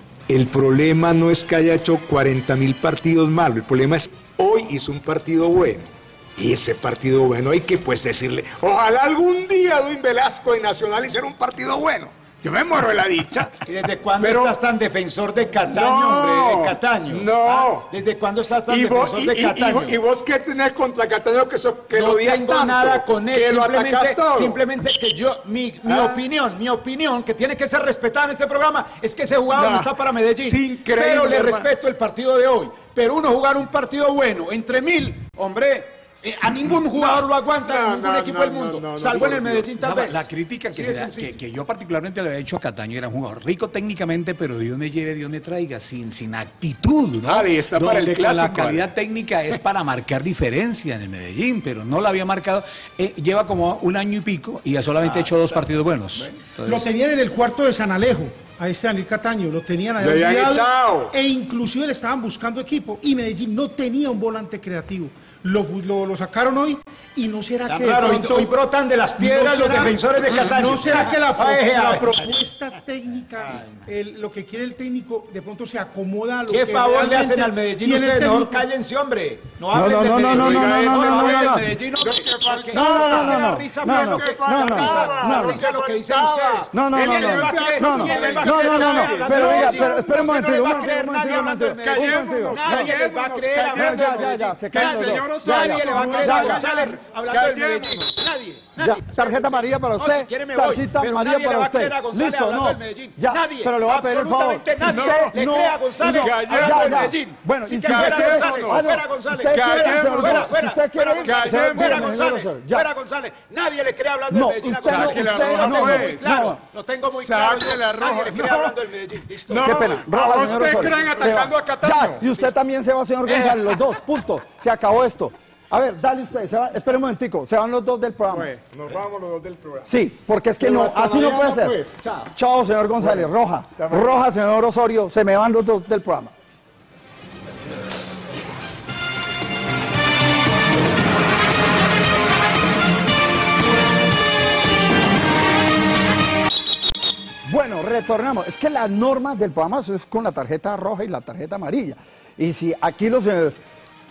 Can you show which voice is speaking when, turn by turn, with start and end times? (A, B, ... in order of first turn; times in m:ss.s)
0:00.3-0:13.6 A
0:13.6-0:20.0 B
0:14.2-0:14.6 A
0:15.7-0:17.9 A
0:18.7-0:24.6 A
0:21.9-0:41.3 B
0:25.8-0:26.2 A
0:29.5-0:31.7 A
0:36.6-0:39.7 A
0:39.8-0:56.3 C
0:47.2-0:48.8 A
0:56.6-1:08.5 D
1:00.0-1:01.1 A
1:07.6-1:12.3 B
1:09.2-1:18.6 D
1:16.5-1:59.9 B
1:19.7-1:21.7 E
1:20.2-1:30.0 A
1:22.7-1:25.6 E
1:26.7-1:32.9 E
1:31.8-1:38.1 A
1:33.7-1:36.7 E
1:38.8-1:52.8 E
1:44.8-1:45.4 A
1:46.0-1:47.1 A
1:47.7-1:49.0 A
1:49.5-1:50.6 A
1:51.2-1:52.2 A
1:54.3-1:56.6 E
1:54.8-1:56.5 A
1:57.1-1:58.7 A
1:59.5-2:02.2 A
1:59.6-2:08.5 E
2:03.3-2:03.6 A
2:09.8-2:11.8 E
2:10.6-2:12.1 A
2:12.3-2:16.3 E
2:27.4-2:33.6 E